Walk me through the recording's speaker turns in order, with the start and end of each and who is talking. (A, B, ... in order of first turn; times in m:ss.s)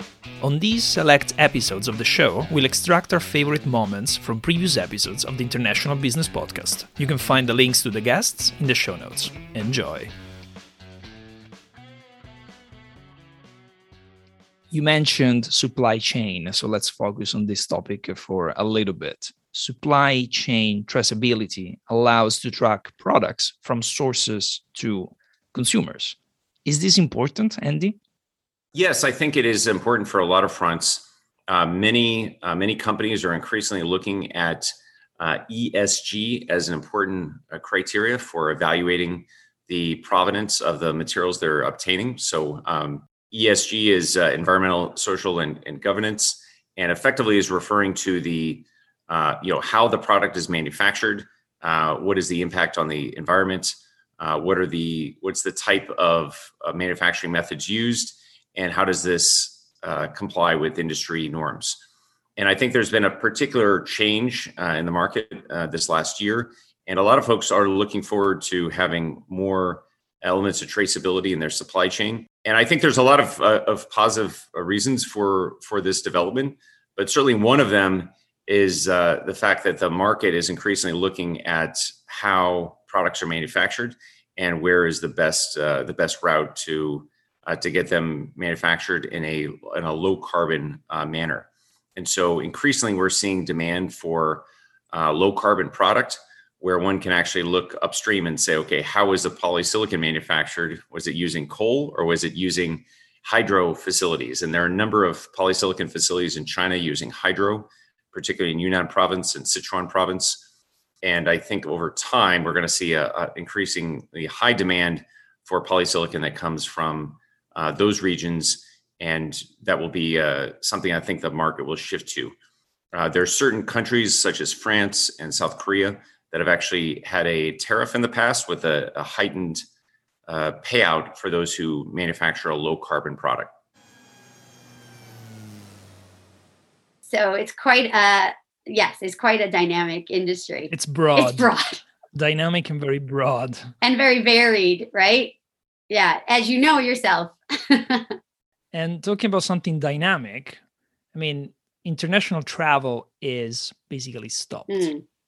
0:00.4-0:10.1 A
0:14.7-0:28.0 A
0:28.8-1:01.8 B
1:02.4-1:50.4 B
1:51.0-2:02.4 B
2:02.9-2:09.6 B
2:10.3-2:13.5 B
2:17.0-2:21.8 C
2:20.7-2:21.5 A
2:22.1-2:23.6 A
2:23.8-2:25.3 C
2:25.9-2:28.1 C
2:28.7-2:30.6 A
2:31.1-2:34.9 A
2:34.7-2:35.0 C